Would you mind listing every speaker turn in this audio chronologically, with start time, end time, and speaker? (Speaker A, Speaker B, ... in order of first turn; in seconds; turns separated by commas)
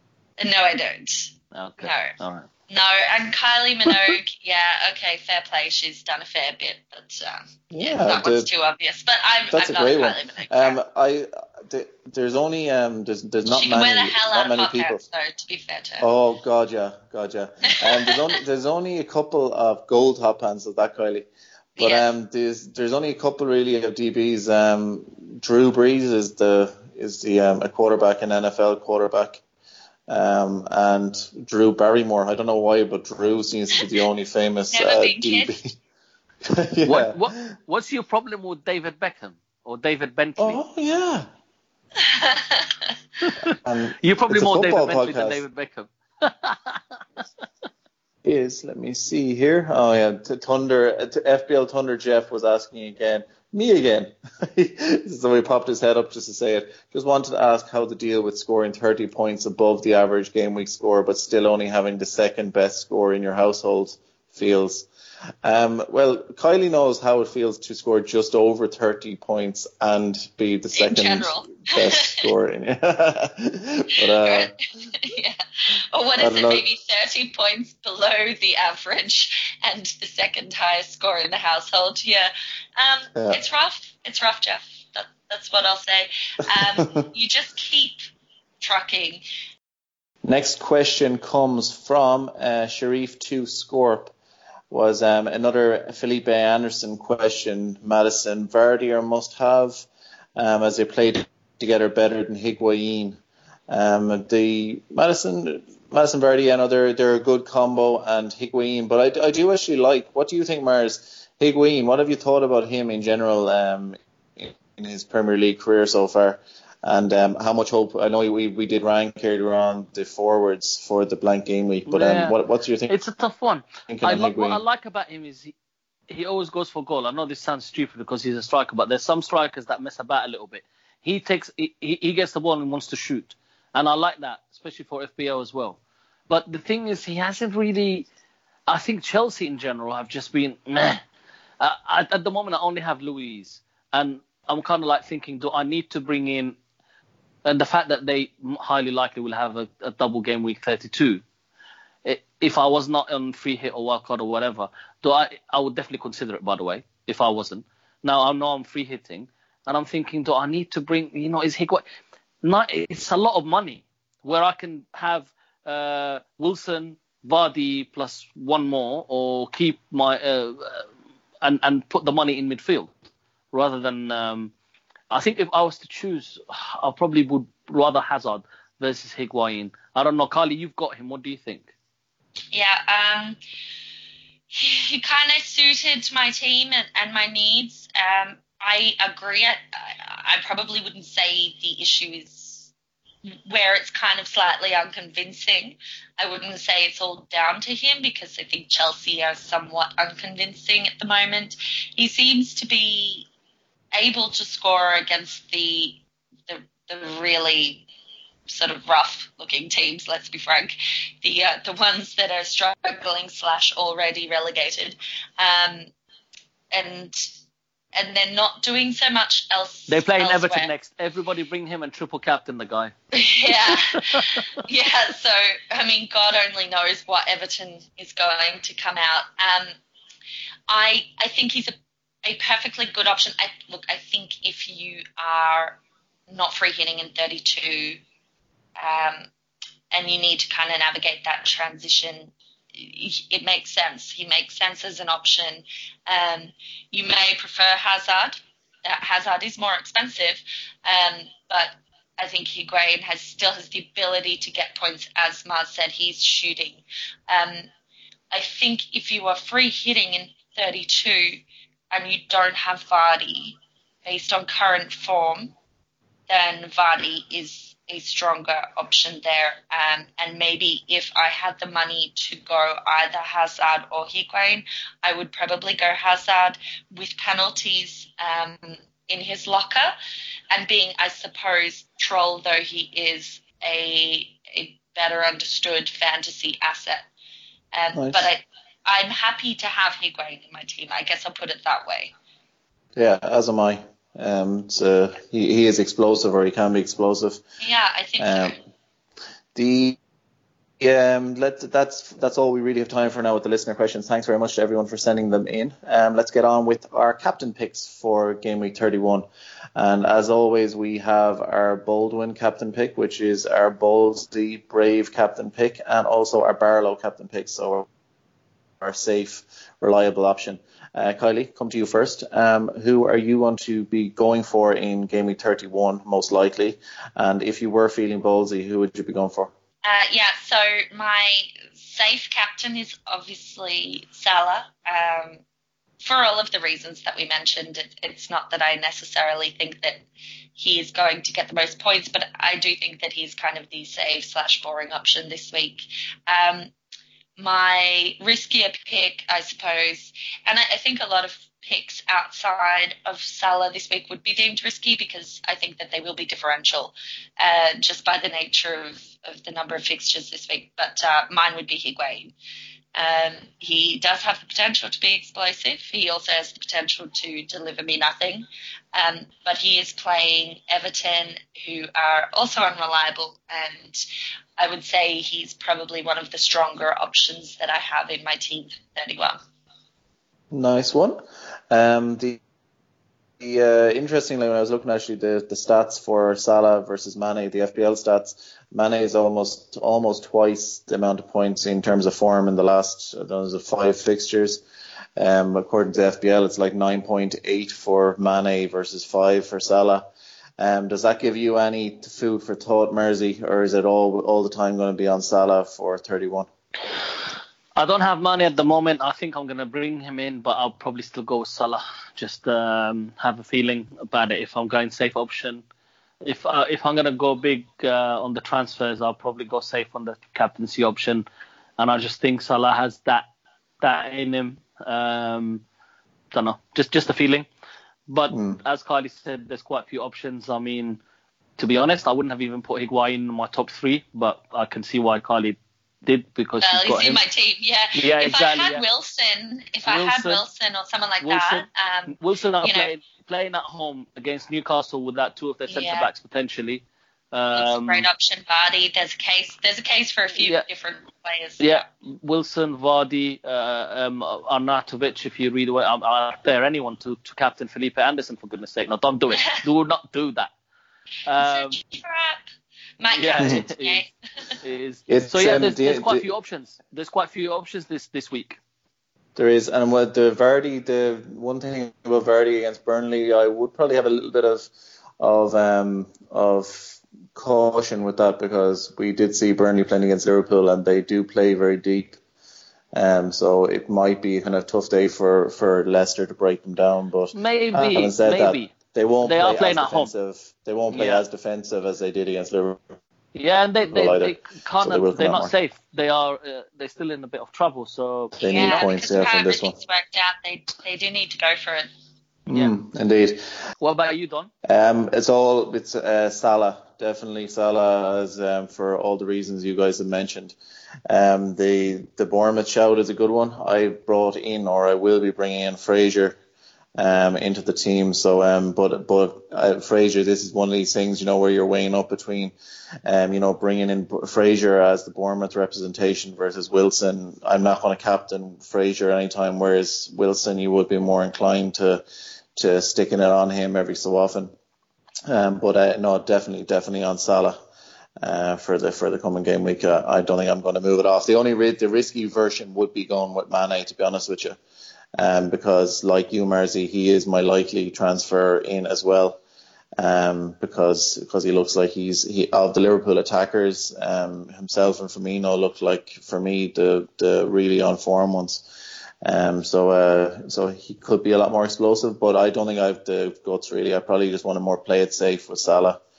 Speaker A: 0.4-2.1, Speaker B: 1.5-2.5, Speaker A: 2.7-10.8, Speaker C: 7.7-8.5, Speaker C: 9.5-15.0, Speaker A: 13.5-16.1, Speaker C: 16.0-21.3, Speaker A: 17.7-18.2, Speaker A: 21.8-22.1, Speaker C: 21.8-29.4, Speaker C: 30.1-35.7, Speaker A: 34.7-35.6, Speaker C: 36.5-37.2, Speaker B: 36.9-40.6, Speaker C: 40.4-41.3, Speaker A: 42.0-42.9, Speaker C: 43.6-45.4, Speaker B: 44.0-46.8, Speaker C: 48.2-64.9, Speaker C: 65.4-74.5, Speaker A: 70.8-72.3, Speaker A: 74.2-75.4, Speaker A: 75.9-88.0, Speaker C: 76.2-76.6, Speaker C: 86.5-86.9, Speaker A: 88.6-89.2, Speaker C: 90.2-94.1, Speaker C: 94.7-123.0, Speaker B: 121.9-122.4, Speaker B: 122.9-125.5, Speaker C: 123.9-124.6, Speaker B: 126.1-138.1, Speaker B: 138.7-141.0, Speaker B: 141.6-146.6, Speaker B: 147.4-151.2, Speaker B: 152.1-161.8, Speaker B: 162.4-170.9, Speaker B: 171.4-172.9, Speaker B: 173.5-174.5, Speaker B: 175.1-181.7, Speaker A: 182.5-183.4, Speaker A: 184.5-192.7, Speaker A: 193.3-203.3, Speaker A: 203.9-207.9, Speaker A: 208.5-215.9, Speaker A: 216.7-217.3, Speaker A: 217.9-220.7, Speaker B: 219.9-222.9, Speaker A: 223.1-229.8, Speaker B: 223.4-224.4, Speaker A: 230.7-235.8, Speaker A: 236.3-238.0, Speaker A: 238.8-239.3, Speaker A: 239.9-257.7, Speaker A: 258.3-265.5, Speaker A: 266.3-279.9, Speaker A: 280.5-287.1, Speaker A: 287.7-292.1, Speaker C: 287.9-288.3, Speaker C: 293.0-297.4, Speaker A: 297.6-298.6, Speaker C: 298.2-298.6, Speaker C: 299.6-300.0, Speaker C: 300.8-317.9, Speaker C: 318.8-329.5, Speaker A: 329.8-335.4, Speaker A: 336.0-340.1, Speaker A: 340.6-346.7, Speaker A: 347.4-362.3, Speaker A: 362.9-374.1, Speaker A: 374.6-379.4, Speaker C: 380.5-381.2, Speaker C: 381.7-382.4, Speaker C: 383.4-394.6, Speaker C: 395.2-400.1, Speaker C: 400.6-406.5, Speaker B: 407.8-415.6, Speaker B: 416.2-421.2, Speaker B: 421.8-423.3, Speaker B: 423.8-425.6, Speaker B: 426.3-427.5, Speaker B: 428.1-431.0, Speaker C: 428.3-428.6, Speaker B: 431.6-437.2, Speaker A: 436.6-442.9, Speaker B: 437.9-438.8, Speaker B: 439.9-440.4, Speaker B: 441.2-448.1, Speaker A: 445.7-446.1, Speaker A: 447.6-451.9, Speaker B: 450.4-450.6, Speaker B: 451.6-460.5, Speaker A: 459.3-459.6, Speaker B: 461.3-461.8, Speaker A: 461.4-462.4, Speaker A: 463.0-464.6, Speaker B: 463.1-464.1, Speaker B: 464.6-468.6, Speaker C: 465.1-466.3, Speaker C: 469.4-474.7, Speaker C: 475.2-482.2, Speaker C: 482.9-492.8, Speaker B: 487.4-490.1, Speaker B: 490.9-491.2, Speaker B: 493.3-498.8, Speaker C: 493.9-495.5, Speaker C: 498.4-499.8, Speaker A: 498.4-501.9, Speaker C: 502.5-503.4, Speaker B: 503.8-504.5, Speaker C: 504.6-510.6, Speaker C: 511.1-516.4, Speaker C: 517.0-522.5, Speaker C: 523.1-532.0, Speaker C: 532.6-534.5, Speaker C: 535.3-537.6, Speaker C: 538.2-544.6, Speaker C: 545.2-549.4, Speaker C: 550.0-558.6, Speaker C: 559.2-566.0